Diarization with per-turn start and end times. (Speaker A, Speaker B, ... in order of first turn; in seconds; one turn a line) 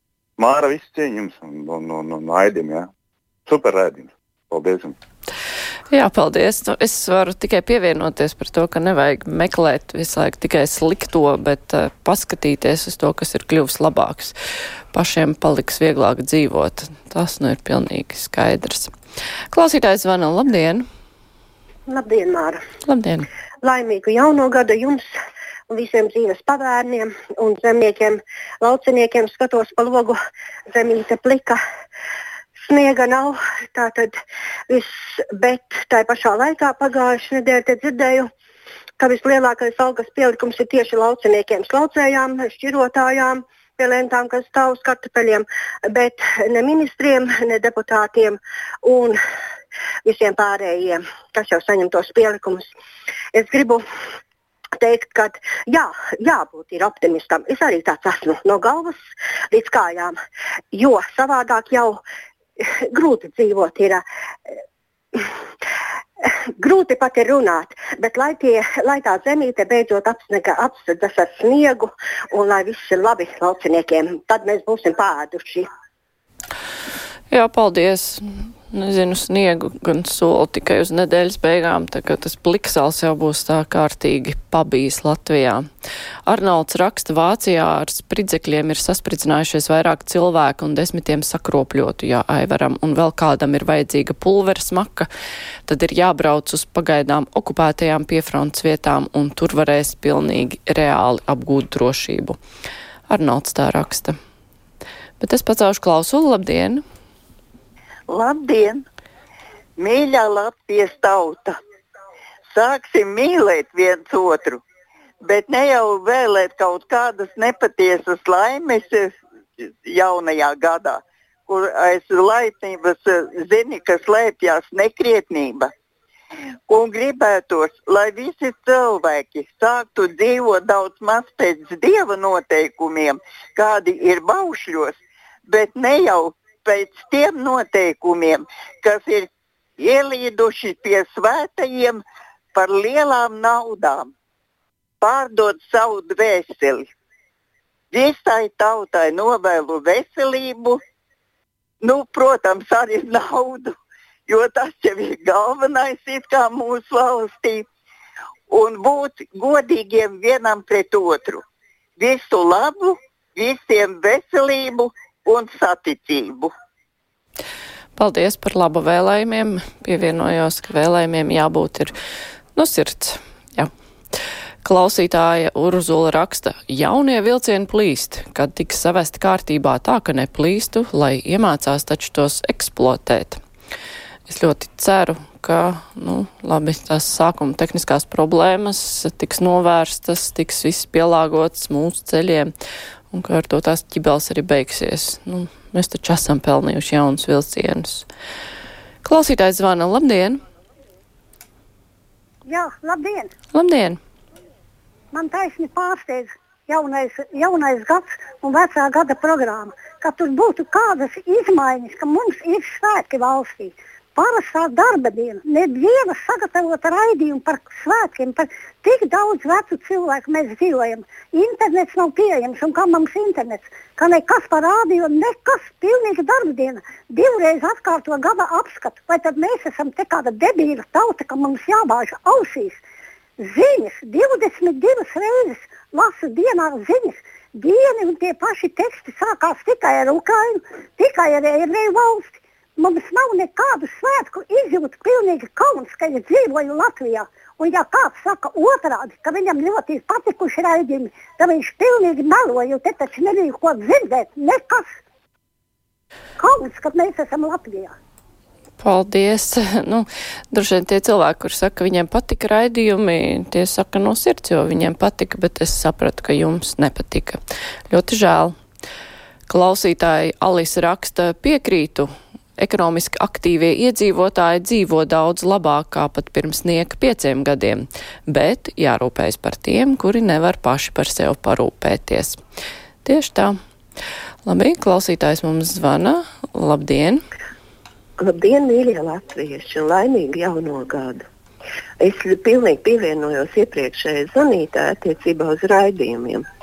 Speaker A: 0.4-2.9
Speaker A: 3.5-5.0
Speaker B: 5.9-14.3
Speaker B: 14.9-18.9
Speaker B: 19.5-20.8
Speaker C: 21.9-22.6
Speaker B: 22.9-23.2
Speaker C: 23.6-25.1
Speaker C: 25.7-30.1
Speaker C: 30.7-31.6
Speaker C: 32.6-34.1
Speaker C: 34.7-38.3
Speaker C: 39.0-49.2
Speaker C: 50.0-52.6
Speaker C: 53.3-53.8
Speaker C: 54.8-58.9
Speaker C: 59.5-60.1
Speaker C: 60.7-62.0
Speaker C: 62.6-64.0
Speaker C: 66.2-75.7
Speaker B: 77.3-85.7
Speaker B: 86.2-95.1
Speaker B: 95.7-102.4
Speaker B: 103.1-104.1
Speaker B: 105.2-106.8
Speaker D: 108.1-108.8
Speaker D: 109.8-111.5
Speaker D: 112.5-114.6
Speaker D: 115.2-119.1
Speaker D: 119.8-125.7
Speaker D: 126.7-134.9
Speaker D: 135.5-142.0
Speaker D: 142.5-144.1
Speaker D: 145.0-146.9
Speaker D: 147.9-150.8
Speaker D: 151.8-153.7
Speaker D: 154.3-157.7
Speaker D: 158.5-161.4
Speaker D: 162.0-166.5
Speaker B: 167.9-171.9
Speaker B: 172.5-173.7
Speaker B: 174.6-183.4
Speaker B: 184.3-192.5
Speaker B: 193.1-198.1
Speaker B: 199.0-200.4
Speaker E: 202.4-203.3
Speaker B: 203.5-204.0
Speaker E: 205.1-232.8
Speaker E: 233.4-254.8
Speaker E: 256.4-257.9
Speaker B: 258.8-267.4
Speaker B: 267.9-268.5
Speaker B: 269.5-282.4
Speaker B: 283.0-283.6
Speaker B: 284.4-287.2
Speaker F: 288.2-291.2
Speaker F: 292.0-296.4